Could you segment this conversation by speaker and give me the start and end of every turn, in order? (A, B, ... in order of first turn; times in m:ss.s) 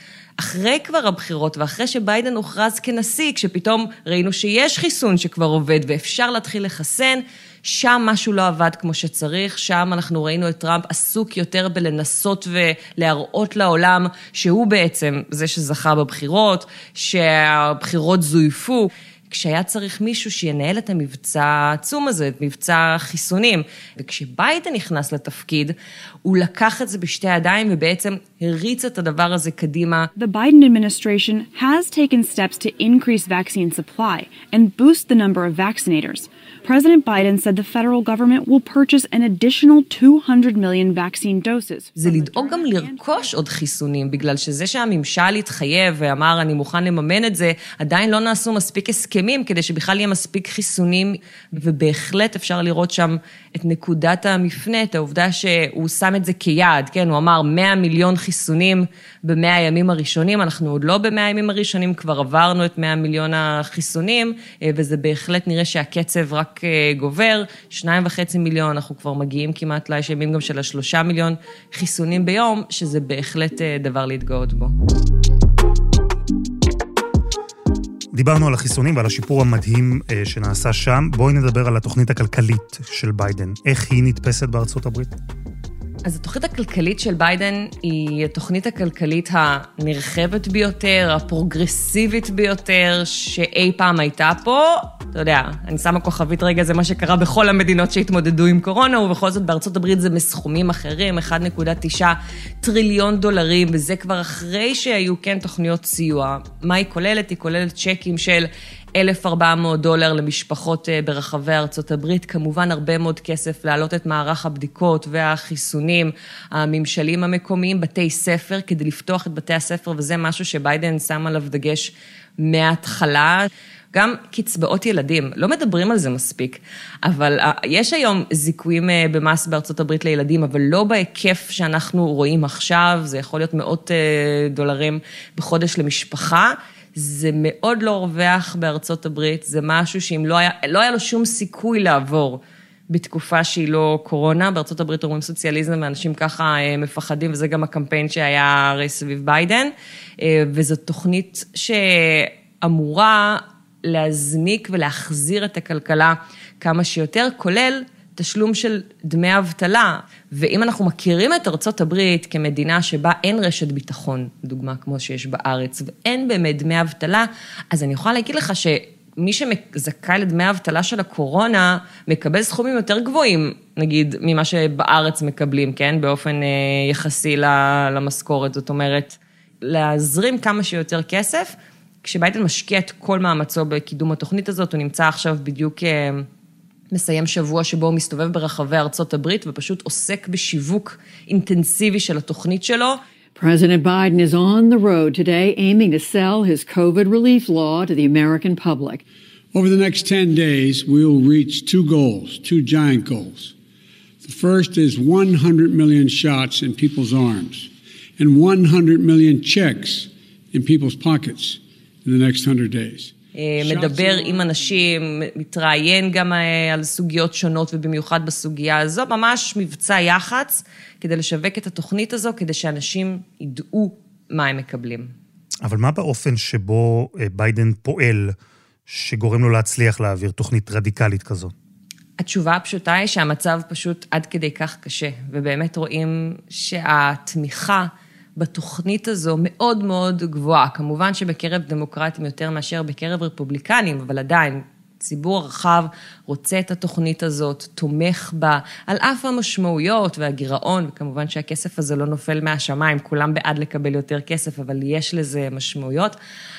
0:00.4-0:30.1 A
0:30.2-0:43.3 B
0:42.0-1:14.7 A
1:18.1-1:25.1 C
1:26.0-3:06.2 A
3:06.9-3:13.0 A
3:13.3-3:19.0 D
3:19.5-3:23.5 E
3:24.2-3:34.4 E
3:33.3-3:45.1 A
3:45.6-3:48.3 C
3:48.9-3:51.5 C
3:52.2-4:16.2 A